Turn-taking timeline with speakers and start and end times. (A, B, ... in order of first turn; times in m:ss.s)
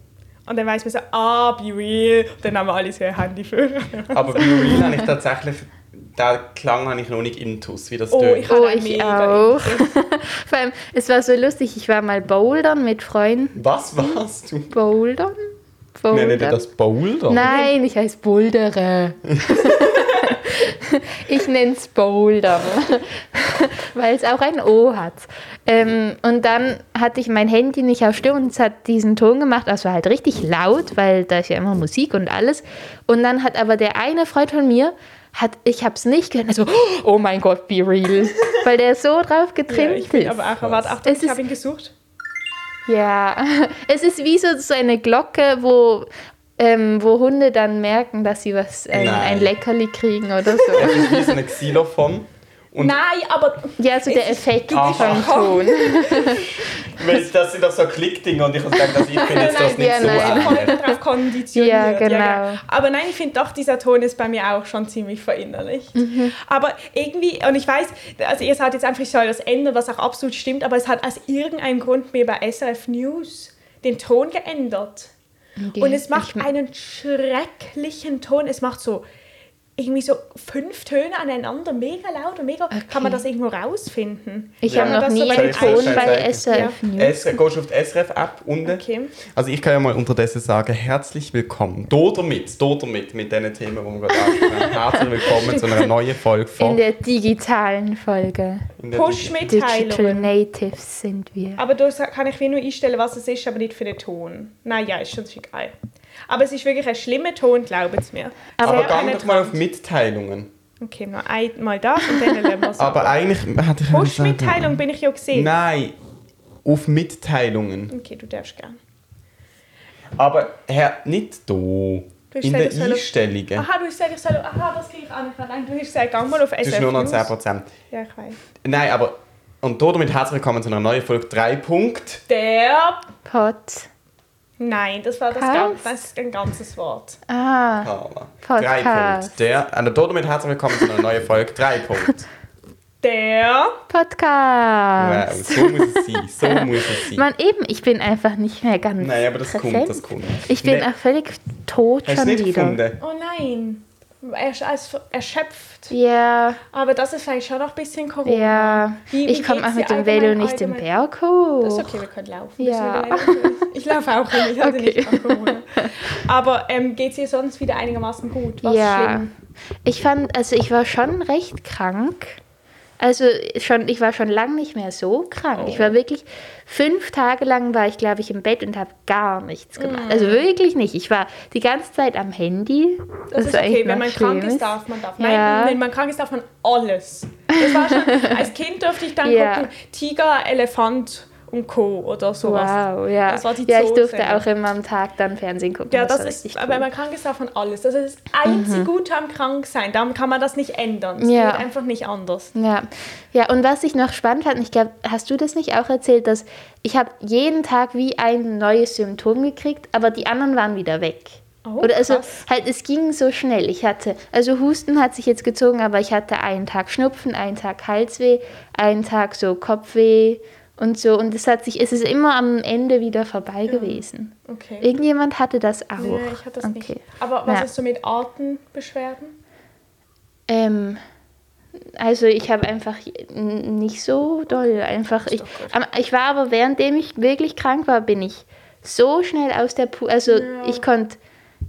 0:00.4-0:04.8 A
0:04.1-0:08.6 B
0:04.4-0:05.1 C
0:08.1-0:09.9 A
0:08.5-0:14.2 C
0:13.5-0:14.7 B
0:14.7-0:15.4 C
0:16.0-0:16.6 C
0:16.1-0:17.5 B
0:17.3-0:40.5 C
0:17.4-0:17.7 A
0:19.3-0:19.8 B
0:39.7-0:41.9 A
0:40.6-0:40.9 B
0:41.0-0:41.4 C
0:42.8-0:51.4 C
0:48.9-0:49.5 B
0:50.7-0:53.0 B
0:52.8-0:56.7 A
0:53.8-0:56.5 C
0:54.7-0:55.6 B
0:56.6-1:00.9 B
0:58.8-1:00.9 C
0:59.1-1:15.1 A
1:01.5-1:02.6 C
1:05.9-1:06.3 C
1:15.6-1:16.5 C
1:15.8-1:19.0 A
1:19.8-1:26.8 A
1:22.7-1:23.2 C
1:24.6-1:27.4 C
1:24.7-1:36.8 B
1:28.6-1:29.2 A
1:34.3-1:35.6 A
1:36.6-1:38.7 C
1:38.8-1:39.5 B
1:38.9-1:40.3 A
1:39.5-1:41.6 C
1:41.6-1:45.7 A
1:46.3-1:49.6 A
1:48.6-1:48.9 C
1:48.6-1:50.5 B
1:50.8-1:53.2 A
1:52.8-1:56.0 B
1:53.9-1:55.5 A
1:56.6-1:57.9 B
1:57.9-1:58.8 A
2:00.2-2:03.6 B
2:02.3-2:07.3 A
2:06.6-2:07.7 B
2:07.9-2:08.4 A
2:08.6-2:12.2 B
2:12.3-2:13.0 A
2:13.2-2:13.9 C
2:14.6-2:17.2 A
2:15.3-2:15.9 C
2:17.3-2:17.9 C
2:17.8-2:22.3 B
2:18.4-2:19.3 C
2:23.0-2:23.8 A
2:23.9-2:32.8 C
2:25.0-2:27.2 B
2:29.0-2:30.9 B
2:32.0-2:33.0 B
2:33.0-2:35.9 A
2:35.9-2:36.6 C
2:36.7-2:40.9 A
2:38.2-2:41.9 C
2:41.6-2:49.2 A
2:42.6-2:43.5 C
2:44.3-2:45.9 C
2:48.6-2:52.4 C
2:53.0-3:05.8 C
2:59.8-3:00.5 A
3:03.3-3:14.4 A
3:07.6-3:08.5 C
3:09.2-3:09.7 C
3:12.4-3:16.9 C
3:15.9-3:22.5 A
3:18.4-3:18.9 C
3:21.2-3:21.7 C
3:22.5-3:47.7 C
3:31.6-3:32.4 A
3:43.7-3:44.9 A
3:46.0-3:49.4 A
3:50.5-3:51.0 C
3:52.0-4:01.2 C
3:55.2-3:55.8 A
4:00.3-4:00.8 A